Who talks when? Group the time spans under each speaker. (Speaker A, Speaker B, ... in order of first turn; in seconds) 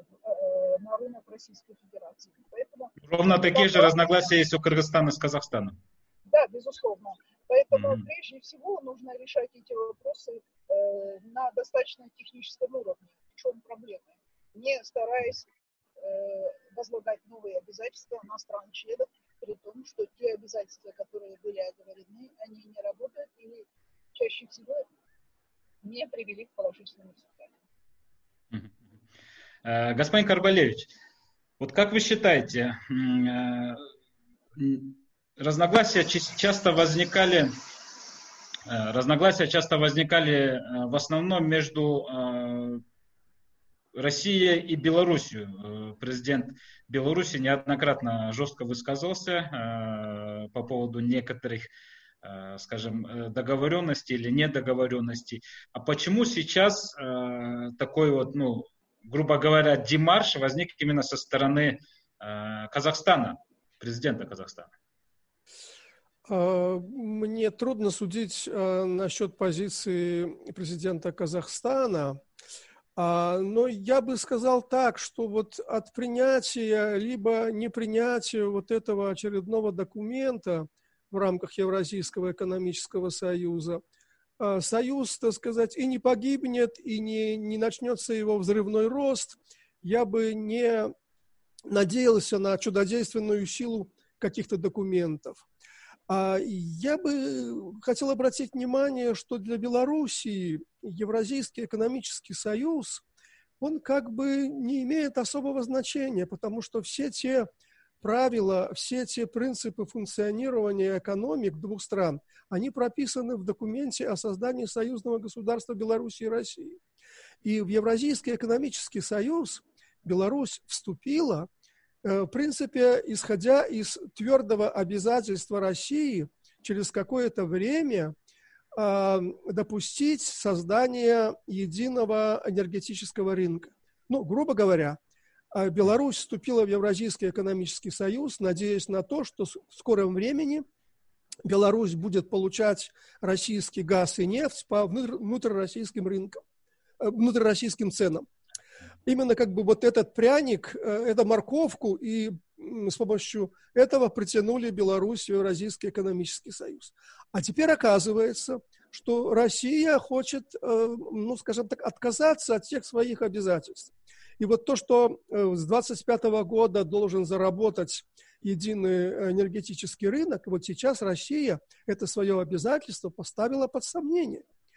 Speaker A: 0.2-4.0, 6.3-15.5, 16.0-24.8, 25.8-27.5
Speaker B: 3.0-5.8, 7.7-8.1, 28.5-28.8, 29.6-30.9, 31.6-33.8, 34.6-37.5, 38.7-42.8, 43.9-51.7, 52.2-64.7
Speaker C: 66.3-72.2, 73.0-83.8, 84.4-90.9, 91.7-95.4, 96.1-103.0, 103.6-107.5, 108.0-116.8, 117.4-121.5, 122.0-128.1, 128.7-135.0, 135.5-140.6, 141.4-146.4, 147.0-148.3, 149.1-174.4